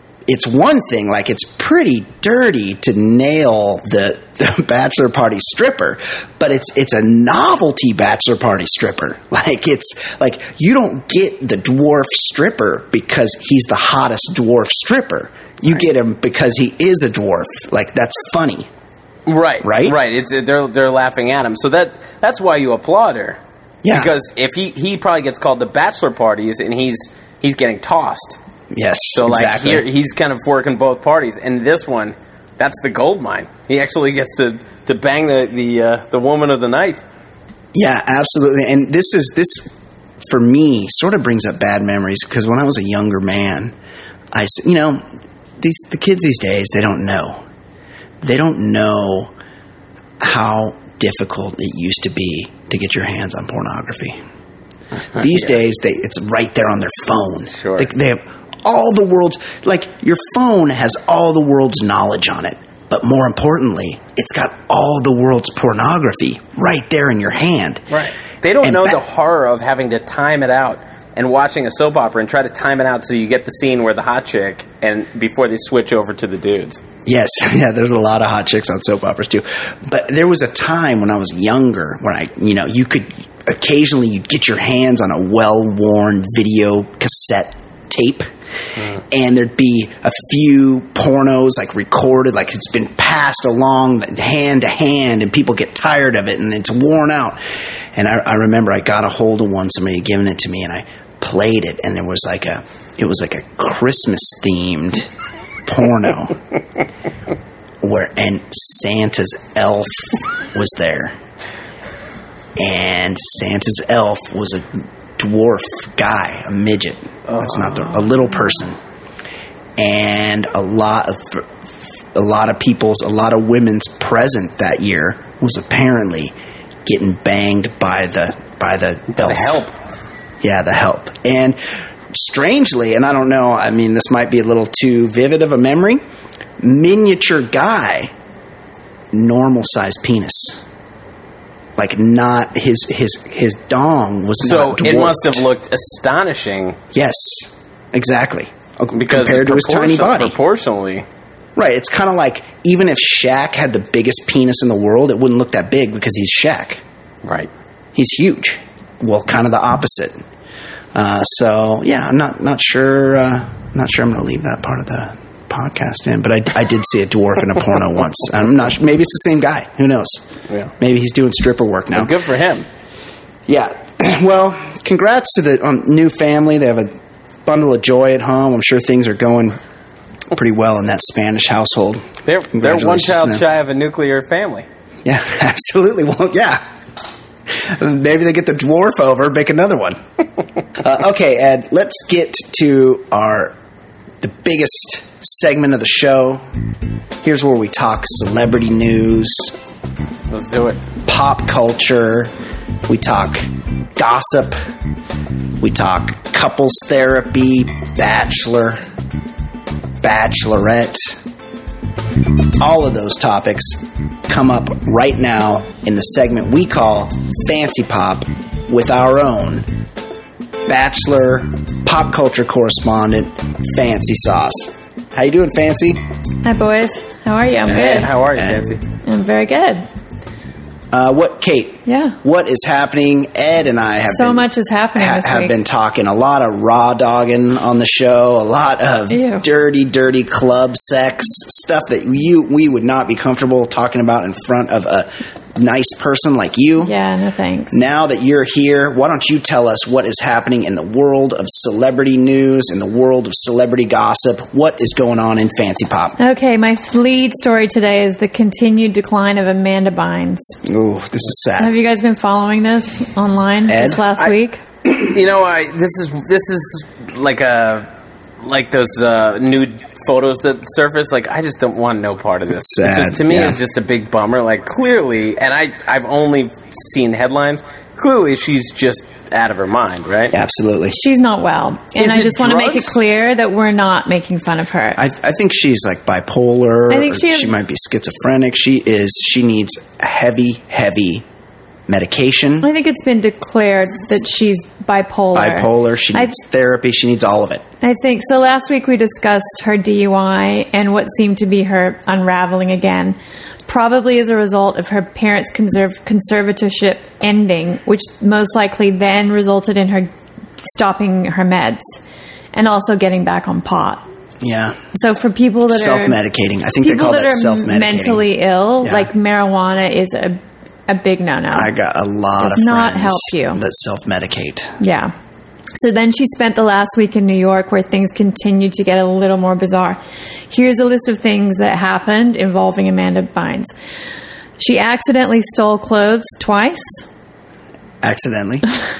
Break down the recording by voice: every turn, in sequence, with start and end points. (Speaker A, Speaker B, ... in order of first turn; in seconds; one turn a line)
Speaker A: 0.3-18.7
Speaker B: 19.3-23.4
Speaker A: 19.6-19.9
Speaker A: 23.8-24.1
Speaker B: 23.9-28.4
Speaker A: 28.7-29.8
Speaker B: 29.1-37.0
Speaker A: 37.7-43.7
Speaker A: 44.3-45.0
Speaker A: 45.6-47.4
Speaker A: 48.2-49.3
Speaker A: 50.2-54.2
Speaker A: 55.1-67.9
Speaker B: 57.5-57.9
Speaker B: 67.9-76.8
Speaker A: 68.6-69.0
Speaker A: 77.0-88.2
Speaker A: 89.0-97.4
Speaker A: 97.9-105.1
Speaker A: 105.7-106.4
Speaker A: 107.8-111.2
Speaker A: 112.6-118.8
Speaker B: 117.3-118.1
Speaker A: 119.8-121.5
Speaker A: 122.1-126.3
Speaker A: 126.8-129.6
Speaker B: 129.1-129.7
Speaker A: 130.4-131.6
Speaker A: 132.1-136.0
Speaker A: 136.6-138.1
Speaker A: 139.1-140.6
Speaker A: 141.8-145.4
Speaker B: 144.4-146.8
Speaker A: 146.9-150.3
Speaker B: 148.9-151.1
Speaker A: 151.6-156.8
Speaker B: 157.2-157.5
Speaker A: 157.9-160.2
Speaker A: 160.9-170.2
Speaker A: 170.8-172.1
Speaker B: 171.9-172.7
Speaker A: 173.5-176.9
Speaker A: 177.4-179.6
Speaker A: 180.3-183.4
Speaker B: 182.2-184.7
Speaker A: 185.0-186.6
Speaker A: 187.5-190.0
Speaker A: 190.7-193.6
Speaker A: 194.2-196.5
Speaker A: 197.2-199.6
Speaker B: 200.3-200.8
Speaker A: 201.1-202.3
Speaker A: 202.9-203.4
Speaker A: 204.0-204.5
Speaker A: 205.6-208.8
Speaker A: 210.0-211.2
Speaker A: 212.6-219.7
Speaker A: 220.7-226.0
Speaker C: 226.4-228.1
Speaker B: 227.7-228.8
Speaker A: 227.7-228.6
Speaker C: 229.0-229.8
Speaker A: 230.9-246.9
Speaker C: 231.9-232.2
Speaker C: 234.1-235.5
Speaker C: 239.1-239.4
Speaker C: 246.8-247.7
Speaker A: 247.7-256.2
Speaker C: 256.2-260.6
Speaker A: 260.6-261.7
Speaker C: 261.6-264.6
Speaker A: 263.7-264.0
Speaker B: 264.8-267.9
Speaker B: 268.4-280.4
Speaker A: 272.5-273.6
Speaker A: 280.3-281.0
Speaker C: 280.9-285.0
Speaker B: 282.0-283.0
Speaker A: 285.0-291.2
Speaker C: 286.9-287.5
Speaker A: 291.9-292.7
Speaker C: 292.6-296.3
Speaker A: 295.3-297.6
Speaker C: 297.8-303.1
Speaker C: 303.7-310.1
Speaker C: 310.6-312.0
Speaker C: 312.5-314.0
Speaker A: 314.4-314.8
Speaker C: 314.9-316.2
Speaker A: 315.7-318.2
Speaker C: 316.8-321.7
Speaker A: 318.8-319.1
Speaker A: 321.5-324.7
Speaker C: 322.4-323.6
Speaker C: 324.8-325.1
Speaker C: 325.7-330.0
Speaker C: 330.5-333.7
Speaker C: 334.6-337.0
Speaker A: 338.0-338.7